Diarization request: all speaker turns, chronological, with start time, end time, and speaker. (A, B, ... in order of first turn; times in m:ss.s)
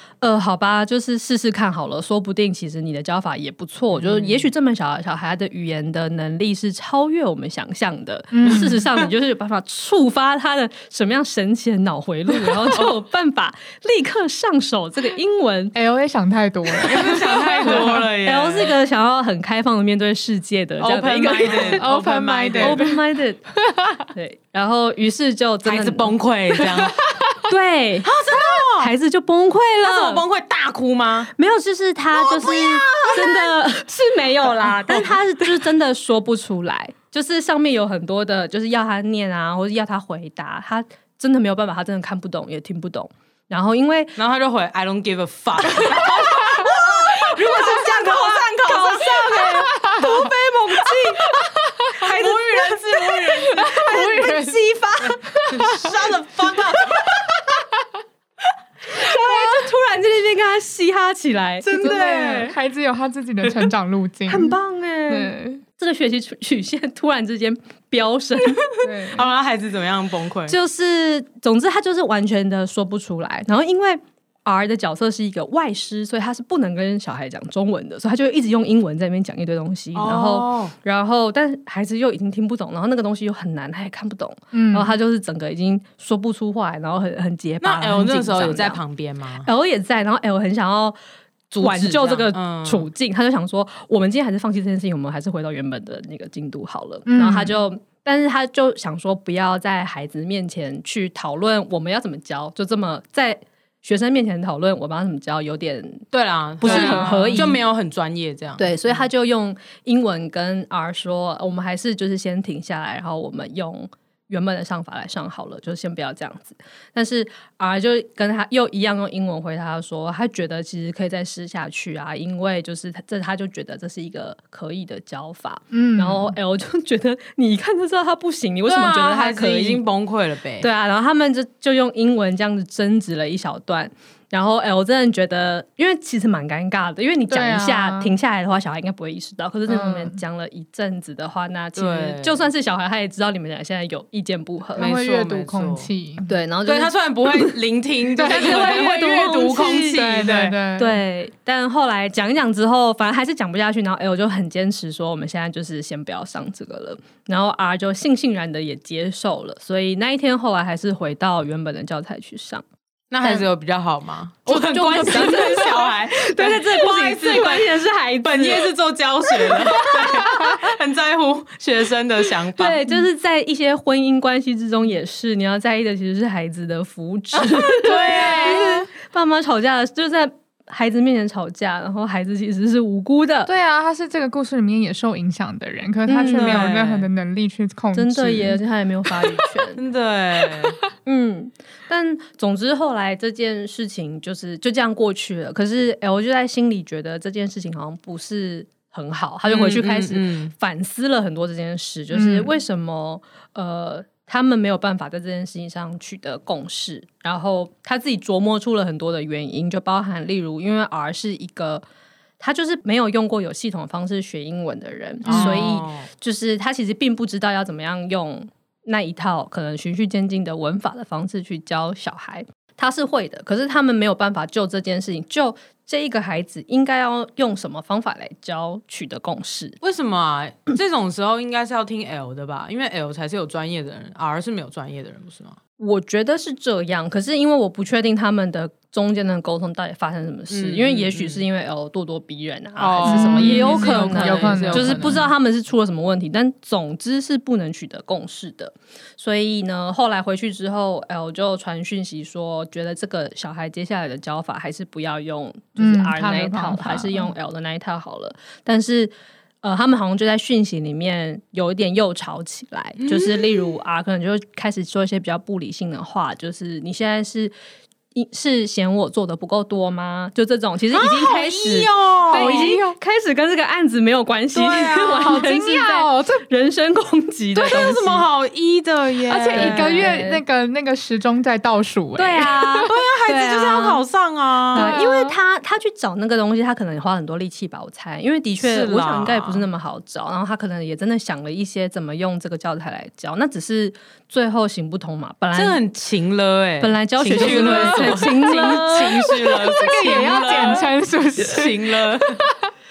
0:00.2-0:15.8 A
0:03.9-0:04.5 B
0:08.3-0:08.9 C
0:15.8-0:18.1 C
0:16.8-0:18.8 B
0:17.0-0:21.8 A
0:20.8-0:22.9 B
0:21.6-0:23.0 C
0:22.6-0:23.4 A
0:23.7-0:24.0 C
0:24.1-0:26.2 A
0:25.6-0:27.0 B
0:26.7-0:27.3 C
0:27.4-0:30.2 A
0:28.0-0:28.9 B
0:29.8-0:31.3 B
0:31.4-0:44.2 A
0:32.2-0:33.5 B
0:34.6-0:35.1 B
0:44.2-0:49.7 B
0:45.8-0:55.8 A
0:51.9-0:53.8 B
0:53.4-0:54.6 C
0:55.2-0:55.9 C
0:55.5-0:57.1 B
0:58.9-1:02.3 A
1:01.6-1:02.6 B
1:01.8-1:05.5 C
1:03.4-1:03.7 B
1:04.3-1:08.8 A
1:08.8-1:09.3 C
1:09.0-1:10.6 B
1:10.5-1:28.8 A
1:20.0-1:20.7 B
1:24.5-1:24.9 C
1:27.6-1:29.5 B
1:29.4-1:31.0 A
1:31.5-1:32.9 B
1:31.6-1:46.1 A
1:37.1-1:37.6 C
1:46.1-1:49.0 B
1:46.6-1:47.6 A
1:46.6-1:47.5 C
1:48.6-2:09.8 A
2:05.7-2:06.4 C
2:08.7-2:10.7 B
2:10.6-2:24.9 A
2:17.3-2:18.1 C
2:19.7-2:20.2 C
2:21.8-2:22.5 B
2:24.8-2:26.3 C
2:24.8-2:25.9 B
2:26.3-2:27.6 A
2:26.6-2:30.6 B
2:28.2-2:31.0 C
2:28.2-2:30.0 A
2:30.8-2:42.6 A
2:43.1-2:52.9 B
2:44.5-2:48.7 A
2:49.3-2:50.5 A
2:52.6-3:03.5 A
2:57.7-2:58.8 B
2:57.9-2:58.7 C
3:03.5-3:08.6 C
3:06.1-3:06.7 A
3:06.3-3:07.1 B
3:07.9-3:09.8 A
3:09.8-3:10.8 B
3:11.0-3:31.8 A
3:19.5-3:20.5 B
3:22.1-3:22.5 C
3:32.4-3:49.8 A
3:35.2-3:36.1 B
3:35.3-3:35.6 C
3:49.8-3:55.6 B
3:55.8-4:27.5 A
4:00.5-4:01.4 B
4:02.8-4:05.3 B
4:03.0-4:05.2 C
4:15.8-4:17.3 C
4:23.0-4:23.8 B
4:28.1-4:38.3 A
4:30.9-4:32.8 B
4:32.3-4:33.0 C
4:34.5-4:35.4 B
4:35.0-4:36.4 C
4:37.6-4:40.0 B
4:39.3-4:42.8 C
4:39.5-4:40.4 A
4:42.2-4:44.0 A
4:42.8-4:44.9 B
4:44.7-4:45.4 C
4:44.7-4:55.8 A
4:48.6-4:49.7 B
4:55.5-5:02.4 B
4:56.8-5:00.8 A
4:57.3-5:02.2 C